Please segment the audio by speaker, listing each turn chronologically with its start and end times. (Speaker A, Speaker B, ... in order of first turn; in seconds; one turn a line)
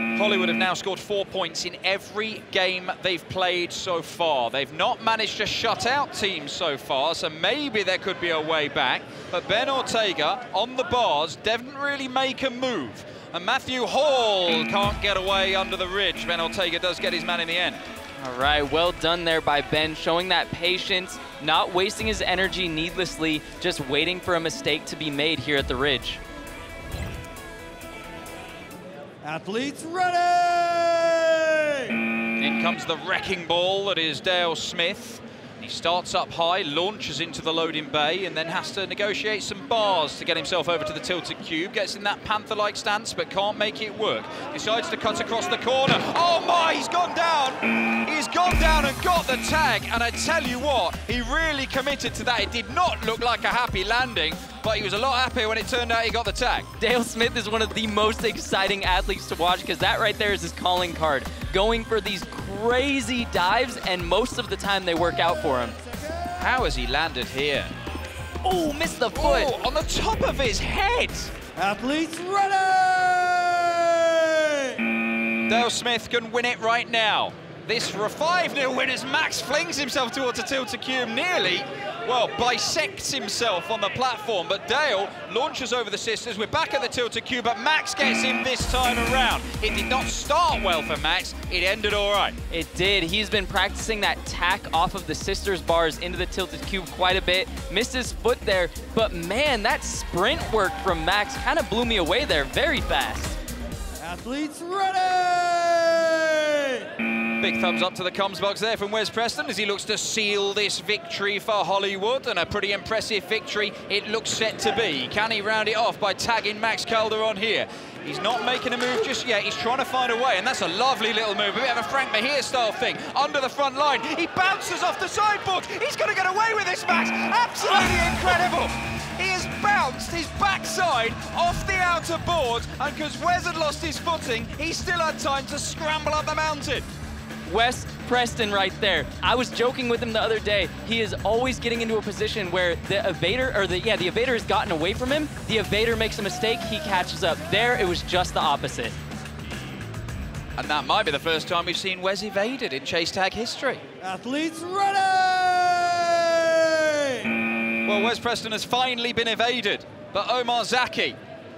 Speaker A: 0.1-17.8
Speaker B: 18.2-26.2
Speaker C: 29.2-32.0
Speaker A: 32.4-56.7
Speaker B: 56.8-65.8
Speaker A: 66.4-67.7
Speaker B: 68.4-69.5
Speaker A: 69.1-71.3
Speaker C: 71.6-74.8
Speaker A: 75.5-92.4
Speaker B: 92.5-103.4
Speaker C: 104.0-106.9
Speaker A: 107.4-136.8
Speaker B: 137.5-148.9
Speaker A: 150.6-153.8
Speaker C: 154.0-157.3
Speaker A: 157.8-161.2